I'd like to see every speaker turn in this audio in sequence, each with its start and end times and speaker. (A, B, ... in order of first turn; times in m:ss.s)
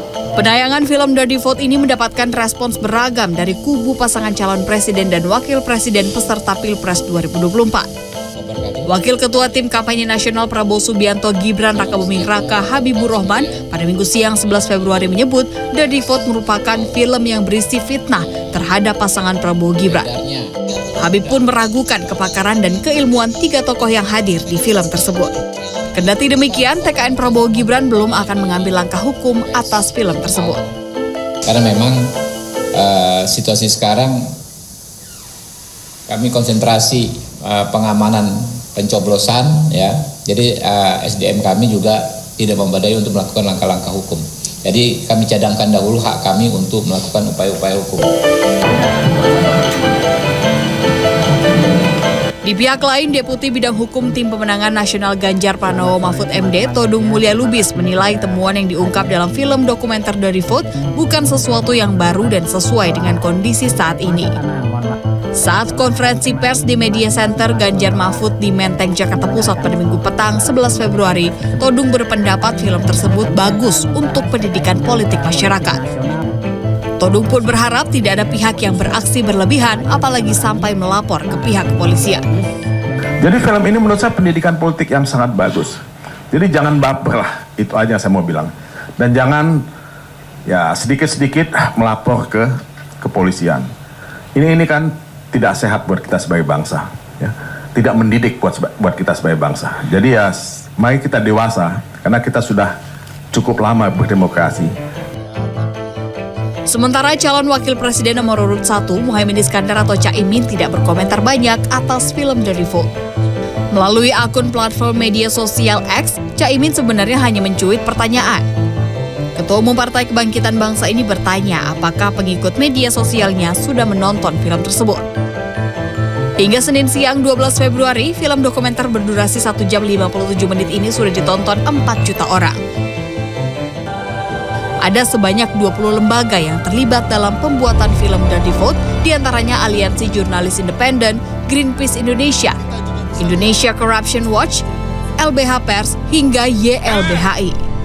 0:00.4-0:07.9 A
0:08.4-0:09.0 B
0:08.9-0:20.1 A
0:11.7-0:13.6 B
0:19.8-0:21.5 B
0:21.0-0:25.4 A
0:25.9-0:30.6 A
0:26.4-0:28.7 B
0:29.4-0:30.7 B
0:31.4-0:32.1 B
0:32.8-0:34.3 B
0:36.1-0:48.1 B
0:52.4-1:04.4 A
1:05.4-1:15.8 A
1:17.0-1:22.3 A
1:23.2-1:25.8 C
1:26.3-1:29.6 C
1:30.5-1:33.7 C
1:34.4-1:42.7 C
1:43.3-1:44.7 C
1:46.7-1:52.9 A
1:53.8-1:58.4 A
1:59.4-2:05.1 A
2:06.4-2:12.6 A
2:14.8-2:22.6 A
2:23.2-2:24.6 A
2:25.2-2:27.6 A